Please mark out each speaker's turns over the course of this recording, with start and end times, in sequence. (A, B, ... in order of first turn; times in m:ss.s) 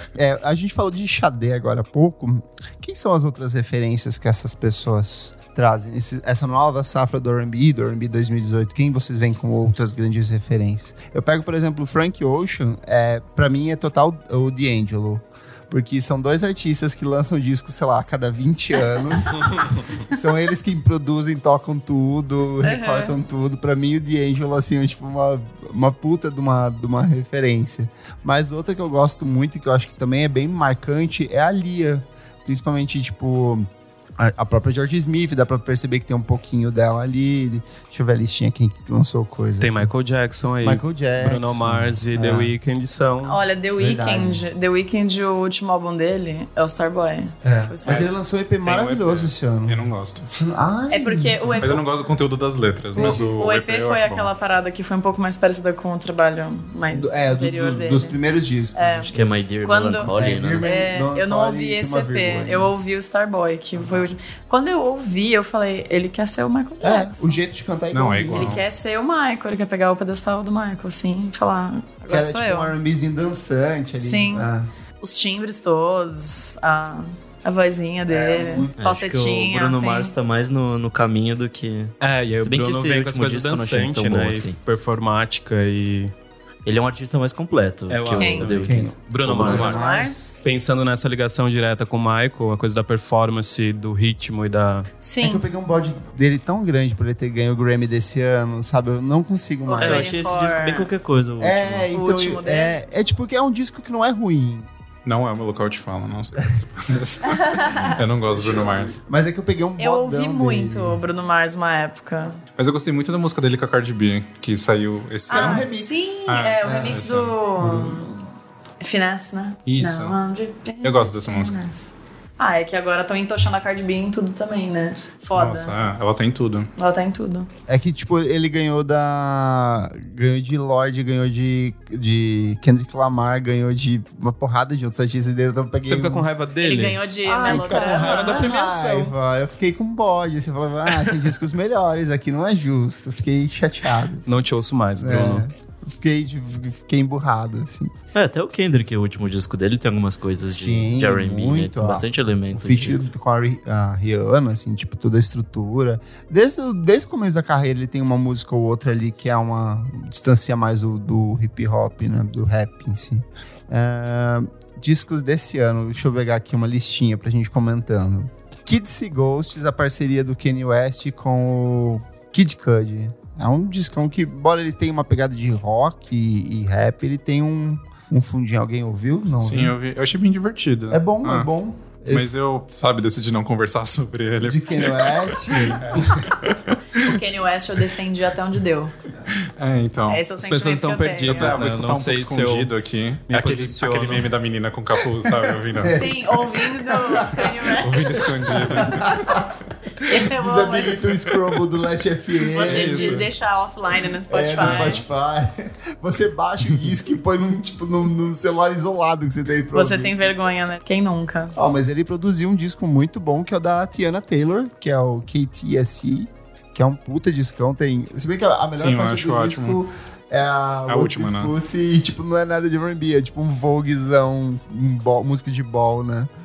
0:00.2-0:33.6 A
0:22.6-0:23.2 B
0:34.2-0:39.9 A
0:39.6-0:43.4 C
0:40.6-0:42.5 A
0:43.2-0:48.1 B
0:43.8-0:44.5 A
0:47.4-0:51.8 A
0:48.6-0:50.3 D
0:50.9-0:51.8 B
0:51.6-0:54.3 D
0:53.0-0:53.4 A
0:53.0-0:58.2 B
0:56.9-0:59.2 A
0:58.8-1:07.4 B
0:59.1-1:00.7 E
1:00.1-1:02.7 A
1:06.8-1:08.6 A
1:07.9-1:08.6 D
1:08.3-1:12.7 B
1:12.1-1:14.7 A
1:14.0-1:14.5 B
1:15.0-1:20.1 B
1:18.1-1:18.9 A
1:18.8-1:24.6 E
1:22.0-1:26.1 C
1:26.6-1:29.8 E
1:27.9-1:34.9 C
1:28.1-1:28.5 B
1:28.6-1:30.2 A
1:29.4-1:30.4 B
1:35.0-1:35.5 B
1:35.2-1:40.2 A
1:39.7-1:40.9 B
1:39.8-1:41.9 E
1:41.4-1:44.7 A
1:41.9-1:42.8 B
1:45.0-1:49.0 D
1:47.3-1:48.0 B
1:48.2-1:51.0 A
1:49.8-1:52.4 B
1:52.6-1:55.7 D
1:55.3-1:58.1 B
1:55.3-1:57.0 A
1:56.3-1:57.3 D
1:57.6-1:58.2 A
1:58.8-2:05.7 B
1:59.7-2:00.2 D
2:00.8-2:01.6 D
2:05.3-2:06.7 D
2:06.8-2:07.5 B
2:07.7-2:16.3 A
2:15.8-2:19.1 C
2:16.6-2:18.6 B
2:17.3-2:24.4 A
2:24.3-2:25.5 C
2:25.0-2:27.9 A
2:28.2-2:33.0 E
2:30.5-2:59.8 A
2:59.4-3:01.5 D
3:00.9-3:02.3 A
3:02.1-3:07.2 D
3:04.4-3:06.0 A
3:07.0-3:08.9 B
3:09.4-3:10.3 D
3:10.1-3:11.6 B
3:10.4-3:14.3 C
3:11.3-3:16.1 D
3:15.8-3:17.8 A
3:15.8-3:18.5 B
3:17.8-3:19.5 D
3:18.5-3:19.5 A
3:20.0-3:21.1 B
3:20.2-3:23.3 A
3:22.5-3:25.0 B
3:22.6-3:23.2 D
3:24.3-3:30.3 A
3:24.6-3:25.0 D
3:29.7-3:31.6 B
3:31.6-3:46.3 A
3:38.8-3:39.8 D
3:40.9-3:41.5 D